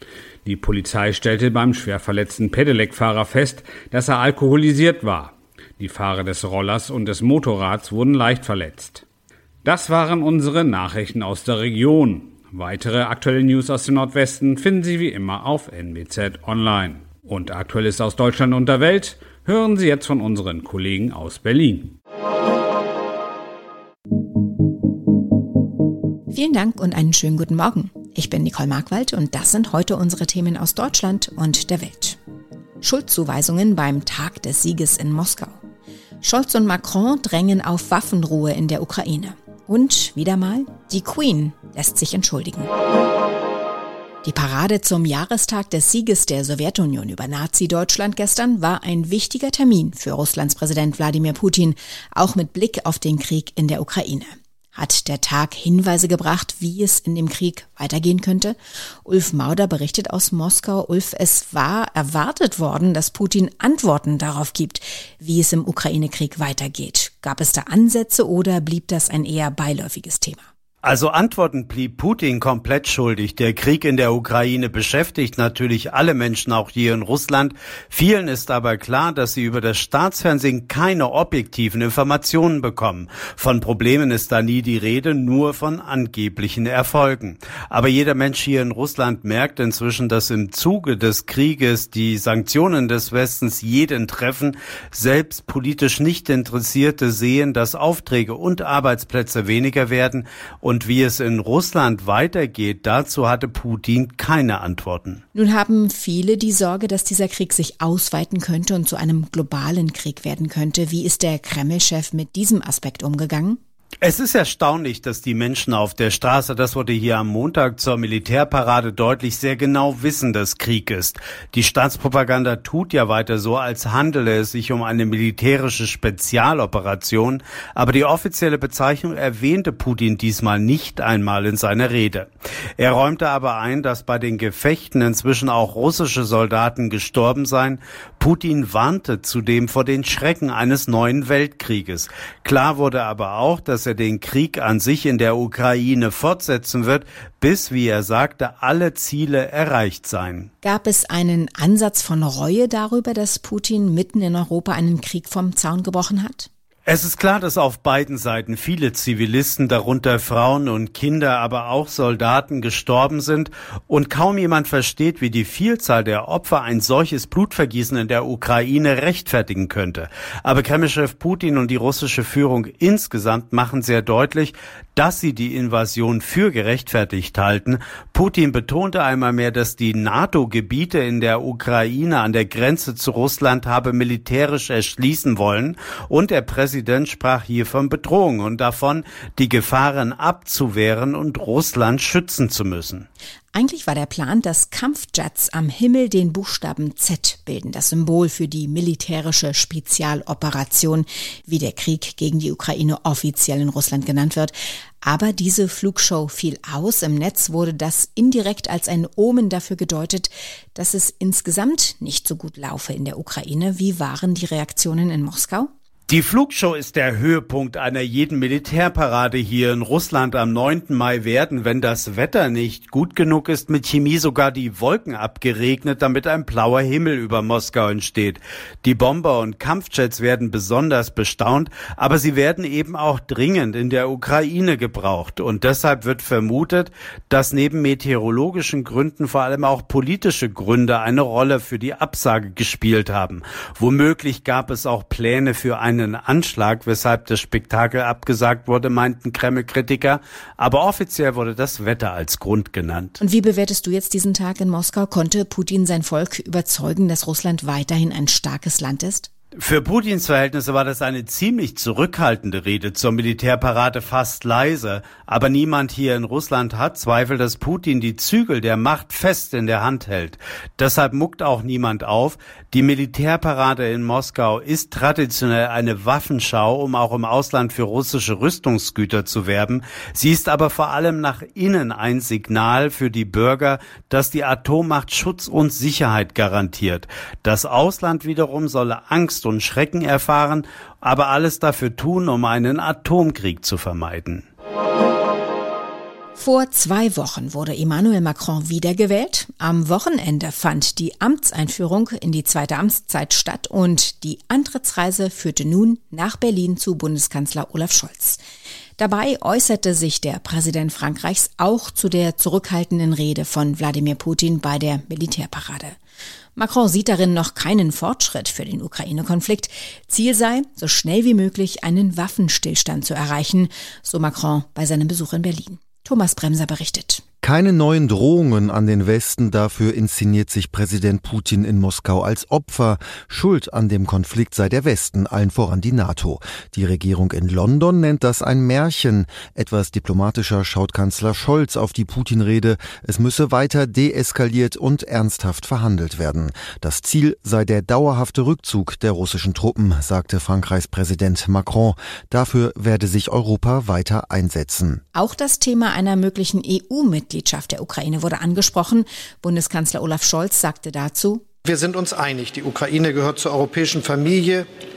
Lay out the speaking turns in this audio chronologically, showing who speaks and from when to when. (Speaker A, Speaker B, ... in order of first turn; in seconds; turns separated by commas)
Speaker A: 0.4-9.0, Speaker A: 9.6-21.9, Speaker B: 26.3-32.2, Speaker B: 32.8-35.6, Speaker B: 36.2-42.7, Speaker B: 44.2-70.4, Speaker C: 70.8-105.2, Speaker B: 105.3-113.6, Speaker C: 114.0-150.5, Speaker B: 150.6-156.5, Speaker C: 156.9-193.1, Speaker B: 193.5-215.7, Speaker C: 216.1-253.2, Speaker B: 253.2-259.3, Speaker C: 259.6-294.4, Speaker B: 296.3-308.4, Speaker B: 309.0-315.9, Speaker B: 316.6-327.2, Speaker D: 327.4-355.0, Speaker B: 355.1-361.4, Speaker E: 361.6-364.7